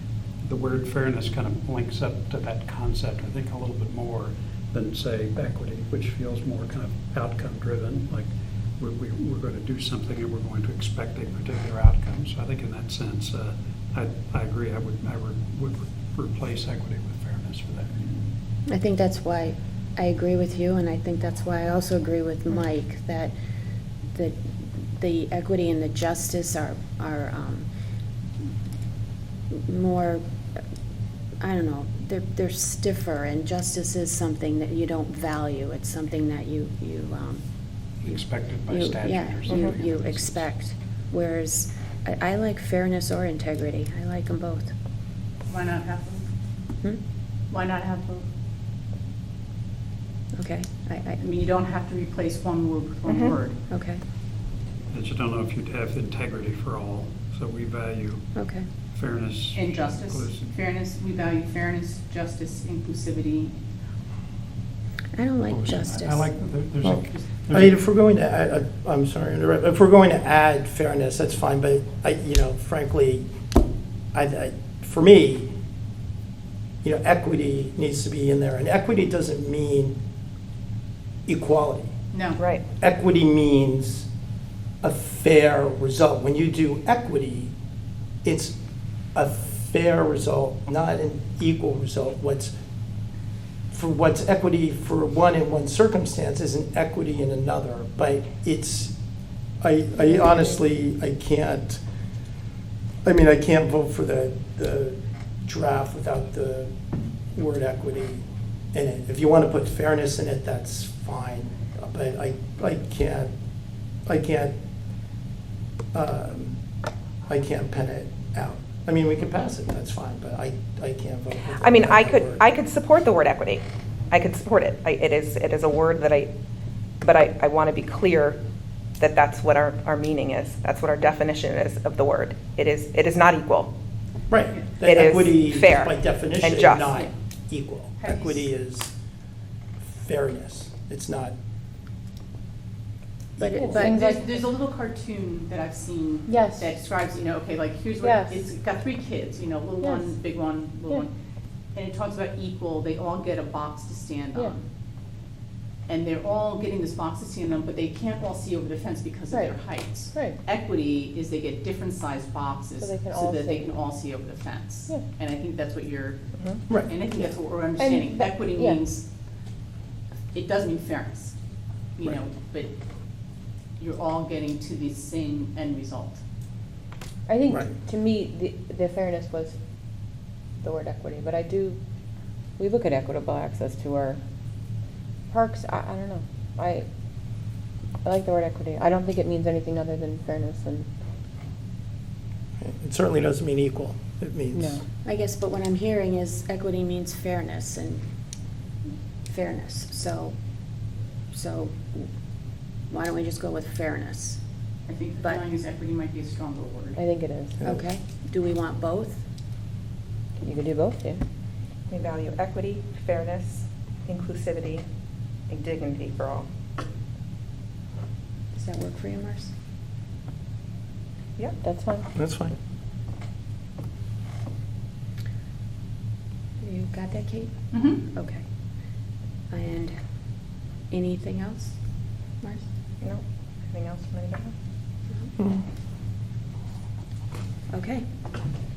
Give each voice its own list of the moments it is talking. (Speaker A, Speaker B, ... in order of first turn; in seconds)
Speaker A: 0.4-18.1, 38.0-40.5, 54.9-58.3, 58.9-60.5, 65.5-67.8
Speaker B: 18.7-23.3, 24.1-24.4, 25.0-27.7, 29.5-30.2, 31.4-37.4, 38.0-44.7, 50.3-51.2, 53.7-54.0, 58.3-58.6, 65.1-66.3, 143.4-144.0, 195.0-198.0, 199.3-200.3, 201.3-202.1, 202.9-204.4, 207.6-209.2, 218.5-219.5, 226.6-228.4, 229.5-229.9, 230.9-231.8, 232.4-232.7, 237.7-238.1
Speaker C: 45.5-46.2, 47.5-48.2, 51.2-53.6, 59.5-63.5, 82.1-82.4, 138.0-138.5, 143.8-151.1, 151.7-154.6, 155.9-166.2, 166.8-169.0, 170.3-171.3, 171.9-172.7, 173.8-176.2, 204.9-207.0, 227.7-228.0
Speaker D: 53.1-53.3, 82.4-82.6, 121.6-126.3, 127.0-128.4, 129.0-133.7, 134.8-137.0, 211.9-214.8, 215.5-216.5, 233.0-234.5
Speaker E: 67.5-73.2, 74.1-75.5, 76.8-80.0, 81.3-81.9, 82.8-84.1, 84.8-87.5, 88.2-88.5, 89.1-92.5, 93.7-98.9, 99.6-101.8, 103.0-106.7, 107.3-113.3, 114.0-114.5, 115.9-116.5, 117.2-122.4, 134.3-138.9, 139.8-141.3, 143.4-143.9, 192.6-194.8, 222.1-222.6
Speaker F: 143.6-144.3, 146.3-146.7, 148.0-148.5, 149.8-150.1, 159.3-159.6, 160.1-160.4, 162.8-163.7, 167.8-168.8, 177.3-179.6, 180.6-181.8, 182.6-184.2, 185.3-186.9, 188.0-190.9, 194.5-194.8, 206.9-207.7, 210.4-211.2, 221.6-222.1